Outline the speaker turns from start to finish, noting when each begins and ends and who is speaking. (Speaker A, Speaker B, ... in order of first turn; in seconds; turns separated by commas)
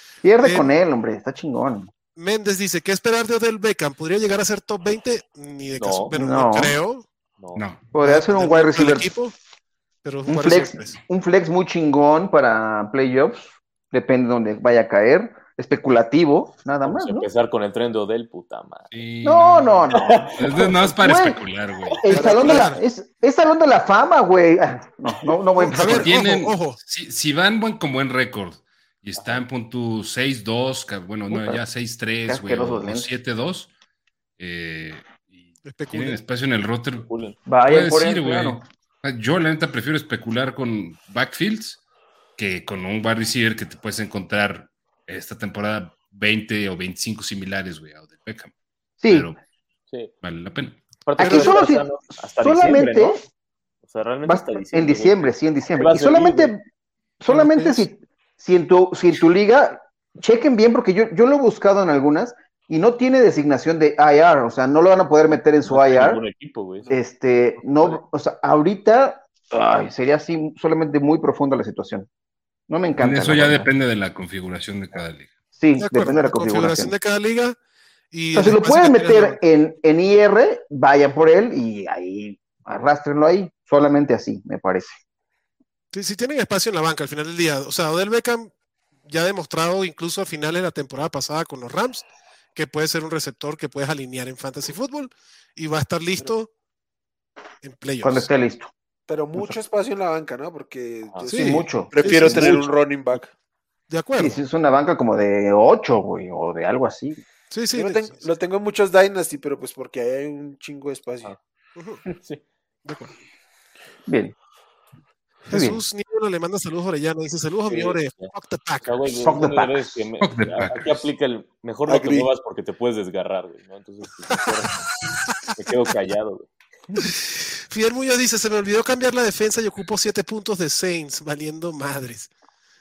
Speaker A: 0.2-1.9, Speaker B: 0.4-0.7, Speaker B: 2.1-7.0, Speaker C: 5.8-6.1, Speaker A: 6.1-6.8, Speaker D: 7.5-7.9, Speaker A: 7.9-9.1, Speaker B: 8.0-9.3, Speaker B: 10.0-11.0, Speaker A: 10.3-17.3, Speaker C: 16.8-18.9, Speaker D: 18.9-22.1, Speaker A: 19.2-20.3, Speaker C: 19.9-20.7, Speaker A: 20.9-21.4, Speaker A: 22.0-26.1, Speaker B: 22.1-22.8, Speaker E: 22.1-22.6, Speaker B: 25.6-26.8, Speaker D: 25.7-33.7, Speaker C: 29.2-29.4, Speaker A: 31.3-31.6, Speaker A: 32.3-33.1, Speaker D: 34.4-37.1, Speaker B: 35.6-36.2, Speaker C: 37.0-37.4, Speaker A: 37.5-38.6, Speaker D: 37.6-41.8, Speaker D: 42.4-48.5, Speaker A: 49.0-49.3, Speaker D: 49.1-49.4, Speaker D: 50.2-50.8, Speaker C: 51.0-53.2, Speaker A: 51.2-51.9, Speaker B: 51.2-51.6, Speaker A: 52.4-53.2, Speaker C: 53.8-56.5, Speaker A: 54.2-56.6, Speaker A: 57.2-66.2, Speaker B: 57.3-57.8, Speaker C: 65.6-66.9, Speaker A: 66.9-72.1, Speaker C: 67.6-68.0, Speaker A: 72.7-73.7, Speaker D: 73.0-75.3, Speaker A: 75.6-76.9, Speaker B: 75.8-77.6, Speaker B: 78.1-79.4, Speaker A: 78.3-85.0, Speaker B: 85.9-88.5, Speaker B: 89.1-96.5, Speaker B: 97.6-98.3, Speaker A: 98.0-98.7, Speaker E: 99.1-103.3, Speaker B: 101.3-102.7, Speaker A: 101.3-102.5, Speaker B: 103.9-104.4, Speaker A: 104.2-107.2, Speaker B: 107.5-108.2, Speaker E: 107.7-111.3, Speaker B: 111.8-112.0, Speaker C: 112.1-112.4, Speaker B: 112.8-113.1, Speaker A: 114.1-114.3, Speaker B: 115.5-118.9, Speaker A: 115.5-115.8, Speaker C: 117.7-118.3, Speaker C: 118.8-124.9, Speaker A: 119.2-119.8, Speaker D: 120.2-121.0, Speaker E: 121.9-122.3, Speaker C: 125.5-126.5, Speaker B: 127.0-132.3